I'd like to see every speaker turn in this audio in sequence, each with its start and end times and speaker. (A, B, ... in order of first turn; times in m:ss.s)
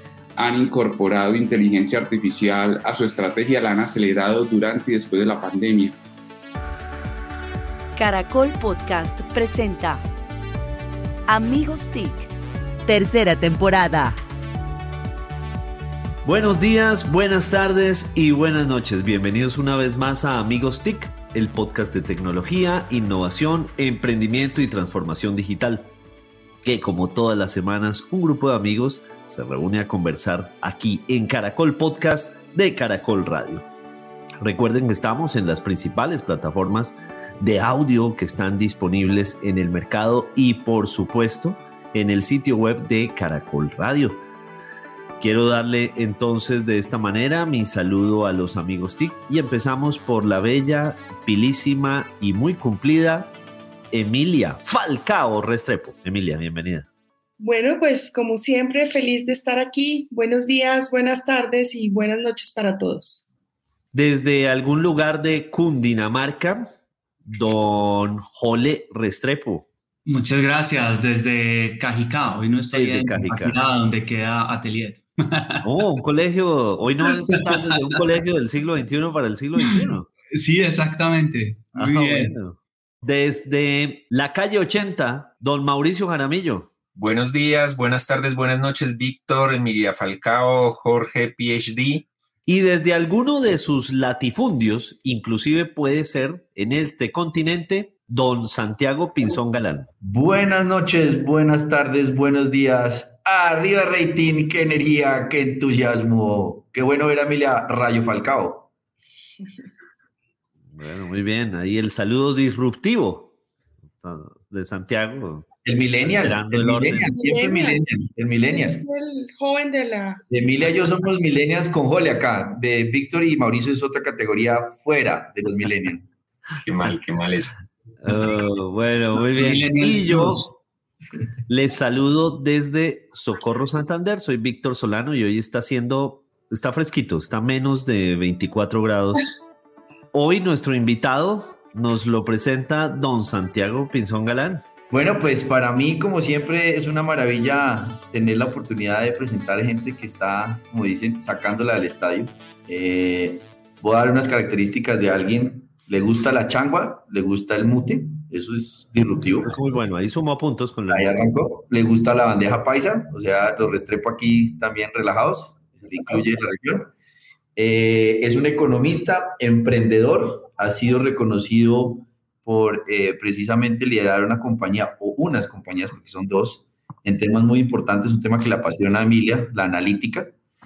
0:00.4-0:06.0 A
0:08.0-0:10.0 B
0:11.3-0:12.3 B
0:12.9-0:14.2 B
0:16.2-0:25.9 C
0:26.6-0:33.7 C
0:34.4-0:44.2 C
0:45.2-0:53.3 C
0:53.9-0:56.9 C
0:57.4-1:03.2 D
1:03.9-1:06.7 C
1:07.2-1:09.7 C
1:10.1-1:15.7 E
1:12.7-1:13.6 C
1:15.6-1:20.1 C
1:17.0-1:18.0 E
1:19.6-1:22.4 E
1:21.8-1:26.7 C
1:27.0-1:32.1 F
1:32.5-1:39.9 C
1:40.0-1:48.7 G
1:50.7-1:53.3 C
1:54.0-1:55.5 C
1:55.6-1:58.8 G
1:56.0-1:57.1 C
1:57.1-1:57.8 D
1:58.5-2:00.2 D
2:00.3-2:06.1 G
2:06.6-2:07.6 F
2:08.0-2:10.5 C
2:09.2-2:10.5 E
2:11.5-2:19.4 C
2:20.1-2:24.6 C
2:24.9-2:39.6 G
2:39.4-2:41.3 C
2:40.9-2:46.9 G
2:47.6-3:00.4 G